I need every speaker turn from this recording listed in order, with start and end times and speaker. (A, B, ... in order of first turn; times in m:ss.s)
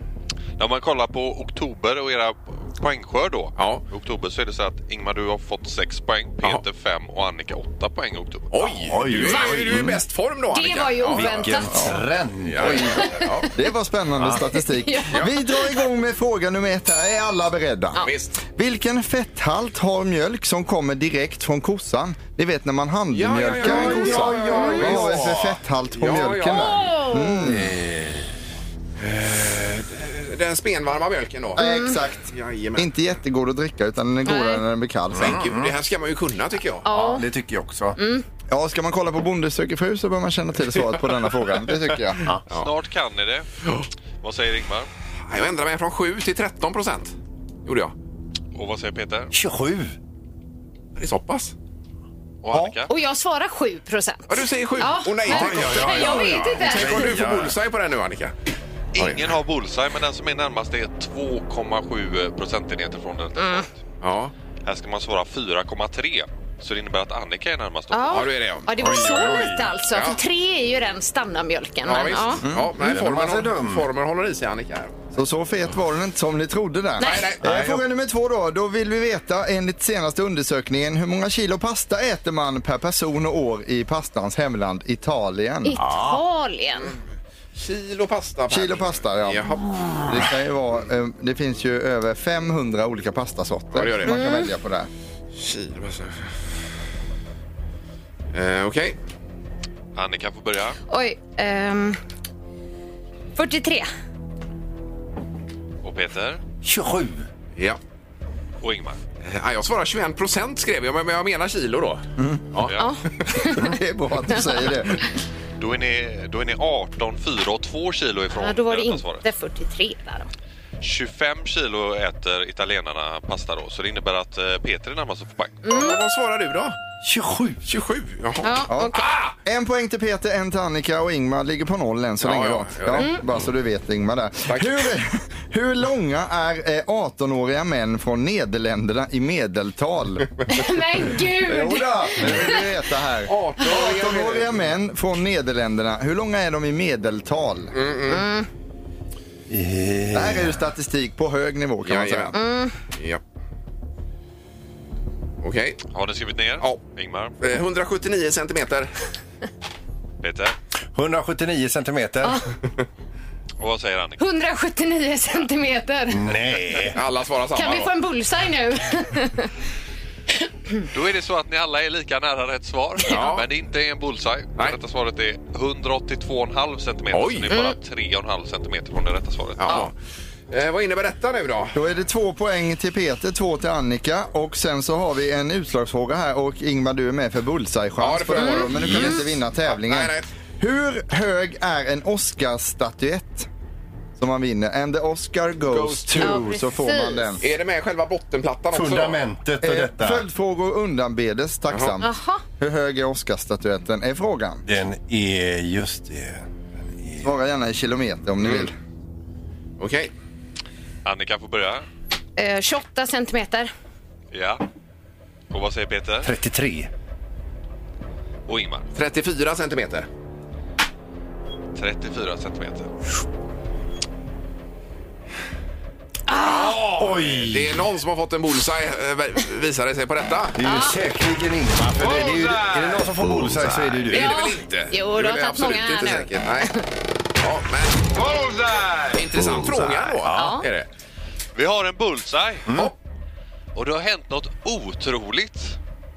0:00.6-0:08.8 A
0:03.6-0:03.8 B
0:08.5-0:11.5 B
0:08.9-0:09.8 C
0:09.7-0:10.0 D
0:10.5-0:11.9 E
0:11.1-0:13.1 C
0:11.7-0:12.0 D
0:12.4-0:13.5 B
0:12.6-0:27.7 D
0:13.2-0:13.4 E
0:14.4-0:15.9 E
0:18.0-0:18.4 B
0:23.1-0:25.4 B
0:23.6-0:25.5 C
0:24.5-0:24.9 E
0:26.0-0:26.8 B
0:26.5-0:27.4 E
0:27.4-0:28.2 C
0:29.0-0:32.9 B
0:31.6-0:32.0 E
0:31.6-0:35.4 D
0:34.2-0:34.6 E
0:35.1-0:35.8 C
0:35.2-0:36.9 B
0:36.8-0:37.3 E
0:36.9-0:38.0 C
0:38.0-0:38.2 E
0:38.5-0:42.2 D
0:42.5-0:43.5 A
0:44.2-0:44.9 A
0:45.3-0:47.1 B
0:47.6-0:47.9 B
0:48.5-0:49.3 A
0:49.3-0:50.0 C
0:51.0-0:51.5 B
0:52.4-0:52.9 A
0:52.9-0:57.1 E
0:54.3-0:58.3 B
0:55.2-0:57.5 C
0:58.9-1:03.7 A
0:59.0-0:59.3 B
1:03.4-1:03.7 E
1:04.0-1:04.3 B
1:04.6-1:08.3 A
1:07.9-1:12.4 E
1:08.1-1:09.0 B
1:08.8-1:09.7 C
1:09.9-1:10.2 B
1:11.8-1:15.0 B
1:12.4-1:12.7 D
1:12.8-1:13.9 C
1:15.1-1:25.8 D
1:17.0-1:17.3 E
1:17.0-1:17.4 B
1:17.4-1:17.8 C
1:25.6-1:27.0 E
1:25.8-1:26.2 C
1:27.6-1:30.2 B
1:28.5-1:29.5 D
1:30.1-1:34.9 D
1:33.7-1:34.2 B
1:34.0-1:34.5 E
1:35.4-1:36.3 B
1:38.3-1:39.0 B
1:40.0-1:40.8 A
1:40.9-1:42.0 E
1:43.4-1:43.9 E
1:45.8-1:46.4 A
1:46.6-1:47.3 C
1:48.6-1:49.0 A
1:49.2-1:52.7 B
1:52.6-1:52.9 A
1:52.8-1:53.8 E
1:53.4-1:55.0 D
1:54.3-1:55.0 E
1:55.6-1:59.2 A
1:58.3-2:00.3 E
2:00.8-2:05.6 A
2:05.6-2:06.0 E
2:05.6-2:06.8 B
2:07.0-2:07.6 C
2:07.6-2:09.4 B
2:08.4-2:09.0 E
2:08.7-2:20.4 D
2:12.2-2:13.5 B
2:14.5-2:14.9 B
2:20.5-2:22.6 E
2:21.5-2:27.7 D
2:23.3-2:24.6 B
2:27.7-2:28.2 B
2:28.1-2:28.5 E
2:29.5-2:30.6 C
2:30.1-2:32.3 D
2:31.8-2:33.2 B
2:32.3-2:32.7 E
2:35.4-2:35.8 B
2:35.9-2:37.3 A
2:37.4-2:38.9 B
2:40.2-2:40.5 A
2:41.0-2:42.4 C
2:43.6-2:44.2 A
2:44.2-2:46.2 E
2:46.1-2:47.0 C
2:46.9-2:47.9 B
2:47.5-2:49.5 E
2:50.9-2:59.8 A
2:53.1-2:53.5 B
2:57.1-2:57.5 B
2:57.5-2:57.8 E
2:59.6-2:59.9 B
3:00.5-3:01.8 B
3:01.8-3:13.5 D
3:08.0-3:10.2 B
3:08.4-3:09.1 E
3:14.2-3:17.4 D
3:15.7-3:16.4 B
3:16.2-3:17.4 E
3:17.4-3:19.2 B
3:18.7-3:20.2 C
3:19.6-3:24.6 D
3:21.7-3:22.0 B
3:22.0-3:22.4 E
3:24.6-3:26.5 C
3:27.0-3:27.3 C
3:27.2-3:28.7 D
3:28.4-3:28.7 B
3:29.8-3:30.1 B
3:31.0-3:31.8 A
3:32.4-3:33.7 E
3:34.3-3:34.6 A
3:35.5-3:36.3 A
3:36.2-3:36.9 C
3:38.5-3:38.8 A
3:39.0-3:40.1 B
3:41.8-3:42.9 A
3:46.3-3:46.8 E
3:46.4-3:50.6 B
3:47.0-3:47.8 C
3:50.6-3:54.4 C
3:50.6-3:51.0 E
3:53.9-3:56.7 B
3:54.1-3:56.8 E
3:57.4-3:58.2 B
3:59.1-4:00.9 B
3:59.4-4:00.6 C
4:00.3-4:00.6 E
4:01.6-4:02.7 A
4:03.8-4:05.8 A